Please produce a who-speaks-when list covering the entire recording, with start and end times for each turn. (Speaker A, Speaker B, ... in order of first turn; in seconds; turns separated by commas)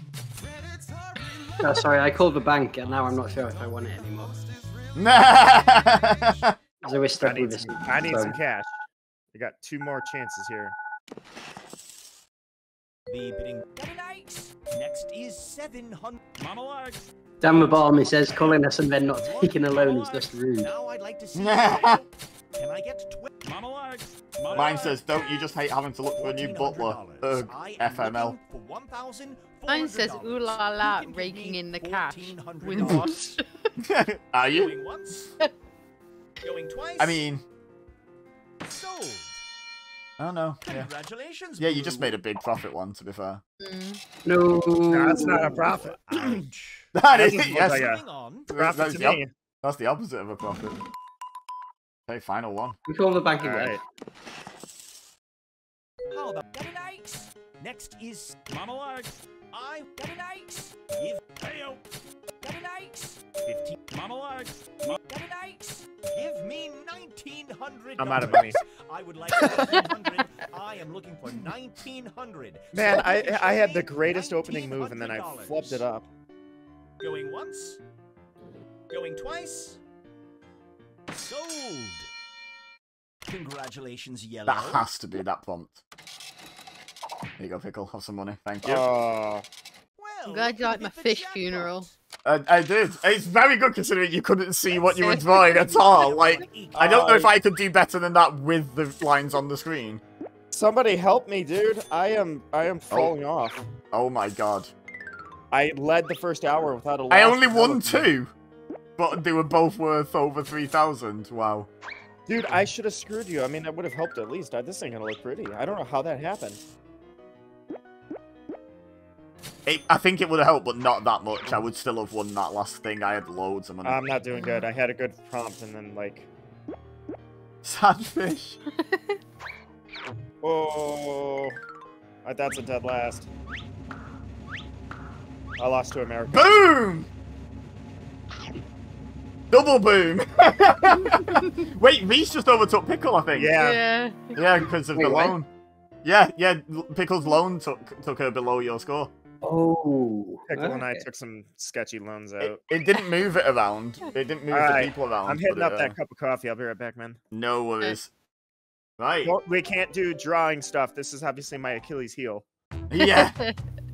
Speaker A: 1.6-4.5, Speaker B: 5.0-6.5, Speaker A: 6.8-8.4, Speaker C: 7.2-8.8, Speaker C: 9.3-10.8, Speaker D: 13.1-16.2, Speaker A: 17.4-20.7, Speaker D: 17.9-18.6, Speaker D: 19.2-23.4, Speaker B: 21.4-22.0, Speaker D: 24.4-25.0, Speaker B: 24.5-28.4, Speaker D: 26.1-33.1, Speaker E: 29.7-33.4, Speaker B: 32.8-33.1, Speaker B: 33.8-34.7, Speaker D: 34.5-35.3, Speaker D: 36.4-37.3, Speaker B: 37.0-37.4, Speaker D: 38.7-39.4, Speaker B: 40.2-40.9, Speaker D: 40.6-42.2, Speaker B: 41.6-43.4, Speaker E: 43.6-44.0, Speaker A: 44.2-45.6, Speaker C: 44.9-46.5, Speaker D: 46.1-46.9, Speaker B: 47.0-47.9, Speaker C: 47.1-49.3, Speaker D: 47.6-48.5, Speaker B: 48.5-50.8, Speaker B: 52.1-52.8, Speaker A: 52.9-53.8, Speaker C: 53.4-53.8, Speaker D: 56.1-59.0, Speaker D: 59.5-61.4, Speaker D: 62.5-64.1, Speaker D: 64.8-75.8, Speaker C: 68.0-68.6, Speaker C: 72.7-76.1, Speaker D: 77.0-77.8, Speaker D: 78.9-79.8, Speaker D: 81.1-82.1, Speaker D: 83.3-84.9, Speaker B: 84.5-85.8, Speaker B: 87.4-88.9, Speaker C: 88.6-89.5, Speaker D: 90.0-92.0, Speaker E: 90.3-91.9, Speaker B: 92.2-100.0, Speaker D: 94.8-97.0, Speaker E: 95.0-95.8, Speaker C: 96.7-97.3, Speaker C: 100.5-103.6, Speaker B: 103.9-104.7, Speaker C: 105.5-108.1, Speaker B: 107.1-108.3, Speaker B: 109.0-111.7, Speaker C: 112.3-116.6, Speaker B: 119.7-124.0, Speaker C: 123.8-126.3, Speaker E: 124.3-124.6, Speaker B: 127.6-128.6, Speaker E: 128.8-129.2, Speaker C: 130.4-131.6, Speaker C: 132.2-133.3, Speaker C: 135.6-136.5, Speaker B: 136.3-137.1, Speaker B: 139.5-143.6, Speaker E: 141.1-141.4, Speaker C: 143.3-143.8, Speaker E: 143.6-144.4, Speaker B: 144.4-145.5, Speaker A: 144.9-145.3, Speaker B: 146.0-149.1, Speaker A: 149.4-151.1, Speaker C: 150.5-152.6, Speaker B: 152.4-156.0, Speaker C: 154.5-157.2, Speaker B: 157.3-158.1, Speaker B: 159.0-159.3, Speaker C: 159.2-162.4, Speaker B: 162.9-163.4, Speaker E: 163.0-163.6